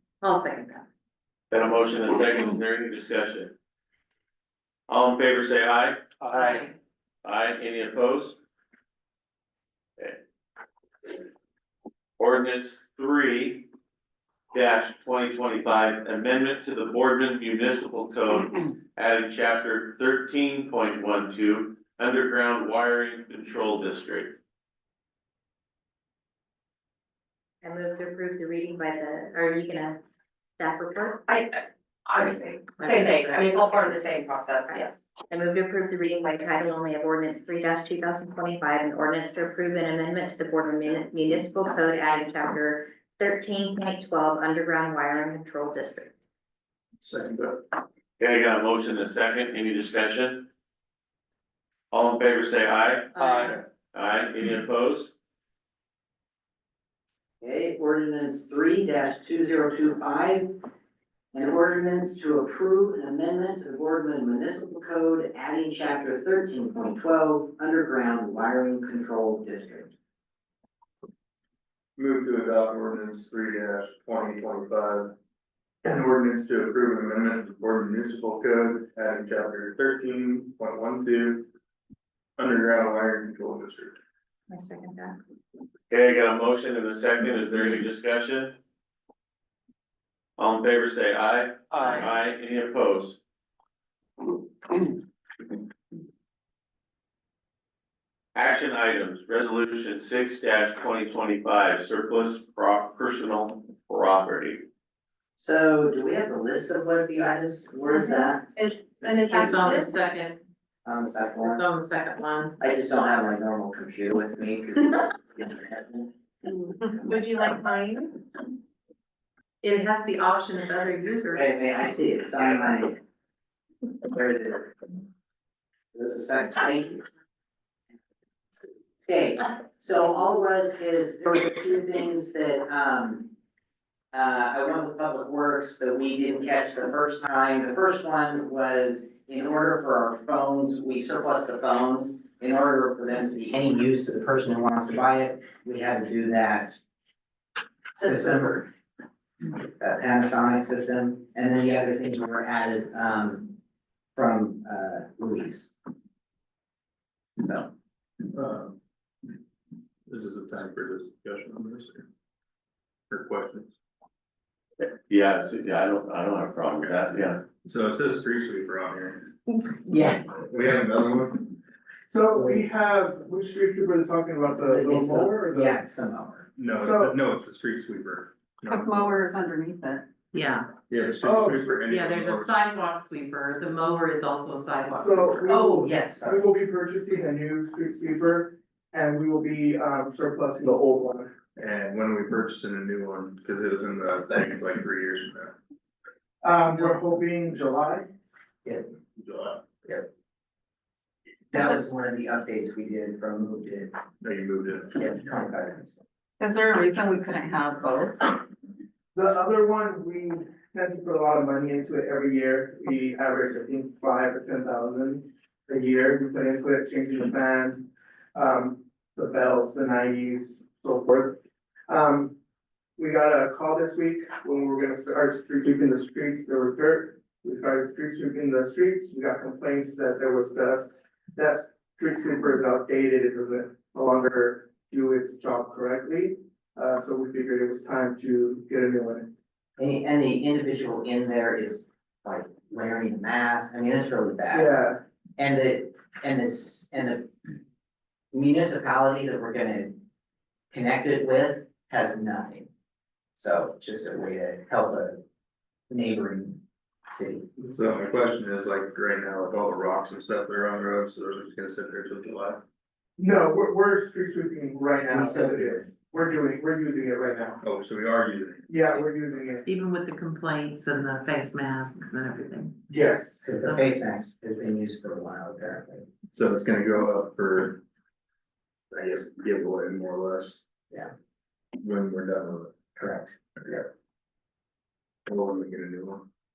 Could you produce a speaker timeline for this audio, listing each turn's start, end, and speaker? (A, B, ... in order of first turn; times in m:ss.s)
0:00.2-0:00.8 A
0:01.5-0:03.5 B
0:04.9-0:06.0 B
0:06.3-0:06.6 A
0:07.2-0:08.4 B
0:12.2-0:13.6 B
0:14.5-0:24.3 B
0:27.6-0:30.0 C
0:30.6-0:31.2 C
0:31.3-0:35.0 D
0:32.8-0:33.3 C
0:34.7-0:46.1 C
0:47.0-0:47.6 E
0:48.2-0:50.4 B
0:51.9-0:53.1 B
0:53.2-0:53.5 A
0:53.9-0:55.1 B
0:57.4-1:00.5 F
1:01.3-1:09.9 F
1:12.0-1:15.1 E
1:15.8-1:21.5 E
1:22.4-1:24.0 E
1:24.5-1:25.2 C
1:25.9-1:28.6 B
1:30.4-1:33.2 B
1:38.3-1:44.6 B
1:45.4-1:48.5 F
1:49.0-1:50.4 A
1:49.4-1:49.8 F
1:50.8-1:51.6 F
1:51.4-1:52.5 A
1:52.6-1:56.1 F
1:57.1-1:57.9 D
1:57.3-1:57.6 A
1:59.6-2:01.7 A
2:01.3-2:03.0 F
2:04.0-2:04.7 F
2:05.9-2:07.0 F
2:09.0-2:13.3 F
2:14.1-2:26.8 F
2:27.9-2:28.7 F
2:29.7-2:33.6 F
2:34.2-2:35.7 F
2:37.4-2:37.7 F
2:38.3-2:38.8 E
2:40.1-2:42.0 E
2:43.1-2:43.7 E
2:44.8-2:47.4 B
2:47.6-2:49.3 E
2:49.8-2:50.3 F
2:50.4-2:51.4 E
2:52.1-2:55.7 G
2:52.4-2:52.6 F
2:54.7-2:56.5 F
2:56.6-2:59.2 E
2:56.8-2:57.1 G
2:58.7-3:00.0 H
3:00.3-3:00.7 A
3:00.9-3:02.6 E
3:01.2-3:01.7 G
3:01.8-3:05.3 A
3:05.0-3:11.3 G
3:05.4-3:06.5 F
3:11.6-3:15.5 E
3:16.4-3:18.0 G
3:19.2-3:19.6 E
3:21.5-3:23.9 F
3:24.2-3:25.0 E
3:25.0-3:26.0 F
3:26.4-3:28.3 H
3:29.1-3:42.3 G
3:43.0-3:59.3 G
3:59.8-4:04.7 F
4:04.5-4:05.0 G
4:05.4-4:07.3 F
4:08.3-4:10.0 F
4:10.7-4:12.7 F
4:13.4-4:15.2 F
4:15.9-4:17.5 F
4:17.6-4:22.6 E
4:23.2-4:27.6 G
4:25.1-4:25.9 F
4:27.6-4:28.7 E
4:28.7-4:29.6 G
4:29.6-4:32.7 A
4:32.9-4:33.4 G
4:33.4-4:36.0 F
4:36.3-4:37.8 E
4:38.9-4:40.6 E
4:41.8-4:42.9 E
4:43.0-4:43.3 F
4:43.6-4:43.8 E
4:45.3-4:46.2 E